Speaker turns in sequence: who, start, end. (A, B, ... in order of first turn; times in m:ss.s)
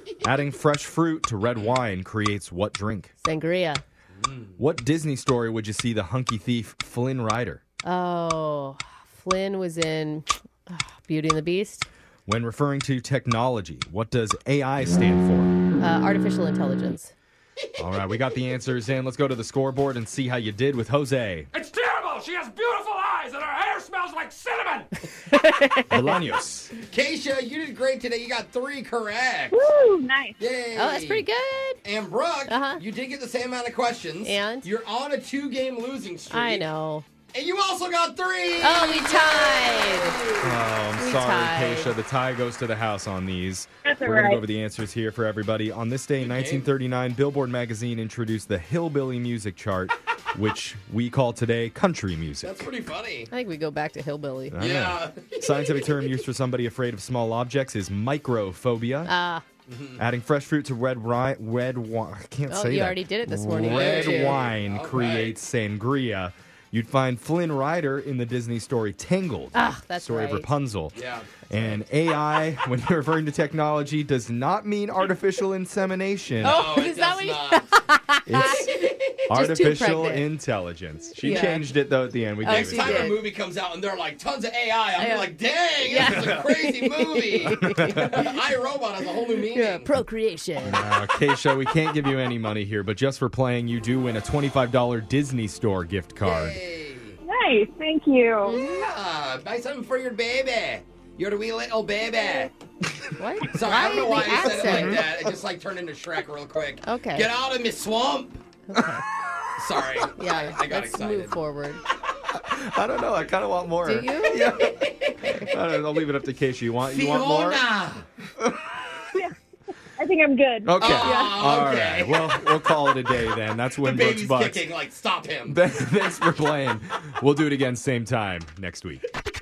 0:00.2-0:03.1 A
0:01.5-0:01.8 B
0:03.2-0:03.8 C
0:04.2-0:04.5 B
0:04.6-0:07.6 A
0:07.8-0:11.9 C
0:12.3-0:15.6 A
0:15.8-0:17.1 C
0:17.8-0:21.5 A
0:21.5-0:24.9 D
0:25.3-0:26.1 C
0:25.9-0:26.7 A
0:26.8-0:29.7 B
0:29.5-0:30.4 E
0:30.4-0:31.2 B
0:30.8-0:31.8 C
0:31.8-0:36.7 B
0:32.5-0:32.8 C
0:34.2-0:34.7 C
0:36.3-0:37.0 C
0:37.3-0:40.6 B
0:38.6-0:40.2 C
0:40.4-0:52.6 A
0:41.0-0:42.0 C
0:43.9-0:44.4 E
0:46.2-0:46.7 B
0:52.4-0:53.3 B
0:53.3-0:54.6 C
0:54.5-0:59.1 A
0:54.6-0:56.0 B
0:59.1-0:59.4 C
0:59.7-1:00.0 B
1:00.0-1:11.0 A
1:02.5-1:04.5 C
1:03.6-1:05.4 B
1:09.5-1:10.5 C
1:10.9-1:11.7 B
1:11.5-1:16.7 A
1:16.4-1:18.8 C
1:16.4-1:17.7 B
1:18.3-1:18.7 A
1:18.4-1:19.1 B
1:19.3-1:23.1 A
1:19.3-1:20.3 C
1:21.2-1:21.7 C
1:21.2-1:21.5 B
1:22.4-1:23.2 C
1:22.5-1:30.0 B
1:25.0-1:28.3 C
1:29.5-1:30.8 C
1:30.6-1:36.6 A
1:36.2-1:37.2 B
1:37.2-1:38.6 E
1:38.4-1:38.9 C
1:38.5-1:42.5 B
1:43.2-1:45.0 C
1:43.5-1:48.4 B
1:44.4-1:45.2 A
1:46.8-1:47.3 C
1:48.7-1:49.0 C
1:49.6-1:51.4 B
1:50.2-1:51.8 C
1:52.2-1:57.6 A
1:53.8-1:54.6 C
1:54.7-1:55.1 B
1:56.8-1:58.1 B
1:58.4-1:58.7 A
2:00.0-2:01.2 E
2:00.6-2:04.7 A
2:00.8-2:02.8 B
2:01.0-2:01.3 C
2:03.8-2:05.6 B
2:05.5-2:09.0 A